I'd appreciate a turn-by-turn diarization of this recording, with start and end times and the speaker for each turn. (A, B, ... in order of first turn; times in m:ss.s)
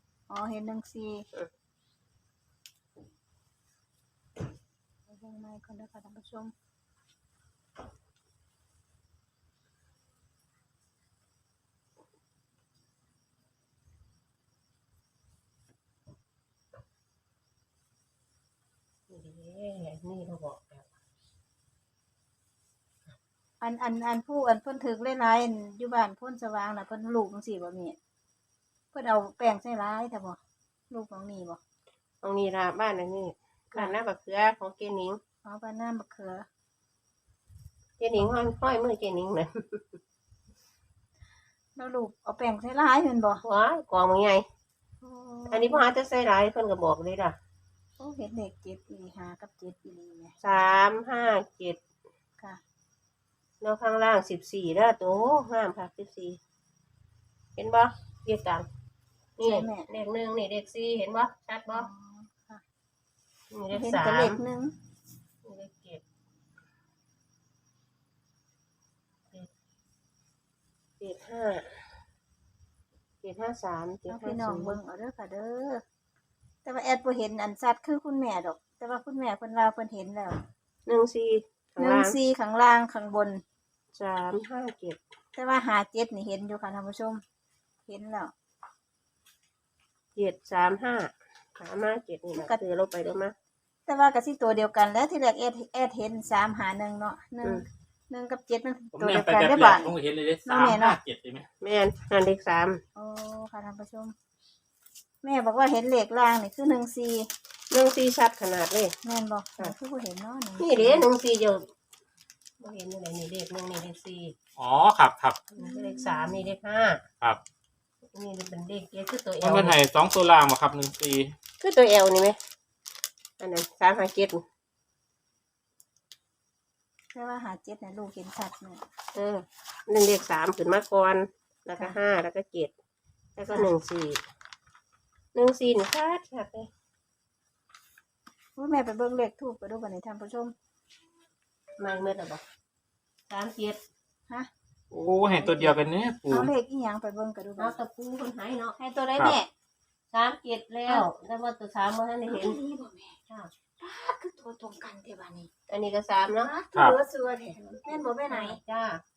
0:00.3-0:01.3 A
0:05.1-0:06.5 A
0:19.1-0:20.9 B
0:23.6-0:28.0 A
0:28.9-0:31.6 A
0:32.2-0:35.2 B
0:35.4-0:36.5 A
0:38.0-0:40.0 B
0:41.8-0:43.4 A
0:43.4-0:44.4 B
0:45.0-0:45.8 A
0:45.5-0:47.4 B
0:48.0-0:50.4 A
0:50.4-0:51.8 B
0:53.6-0:56.4 B
0:57.6-0:58.7 B
0:59.4-1:01.9 B
0:59.4-0:59.9 A
1:01.7-1:02.6 A
1:03.5-1:04.4 B
1:03.7-1:04.7 A
1:05.4-1:06.0 B
1:11.0-1:11.8 B
1:13.2-1:14.8 B
1:14.1-1:15.8 A
1:16.6-1:20.4 A
1:20.8-1:22.2 B
1:21.8-1:23.4 A
1:23.9-1:25.0 B
1:25.3-1:27.2 A
1:27.8-1:28.3 A
1:30.1-1:33.3 B
1:33.8-1:39.9 A
1:38.9-1:41.5 C
1:40.4-1:41.0 A
1:41.6-1:42.8 B
1:42.9-1:44.1 A
1:45.2-1:47.3 A
1:47.7-1:49.0 B
1:49.0-1:51.0 A
1:50.6-1:51.7 B
1:52.6-1:54.3 B
1:54.6-1:55.4 C
1:55.5-1:57.0 B
1:55.6-1:56.5 A
1:58.1-1:59.8 B
1:59.4-2:01.3 C
2:01.6-2:02.4 B
2:03.4-2:04.4 B
2:07.1-2:08.8 A
2:09.1-2:12.7 B
2:13.3-2:14.2 B
2:15.3-2:16.7 B
2:18.6-2:20.5 A
2:21.8-2:22.4 B
2:23.3-2:23.8 B
2:24.9-2:26.5 C
2:25.4-2:27.8 A
2:27.6-2:28.8 B
2:28.8-2:29.5 A
2:30.1-2:32.6 B
2:32.3-2:33.2 A
2:33.8-2:35.5 A
2:35.7-2:36.5 B
2:36.3-2:38.6 A
2:37.6-2:39.0 B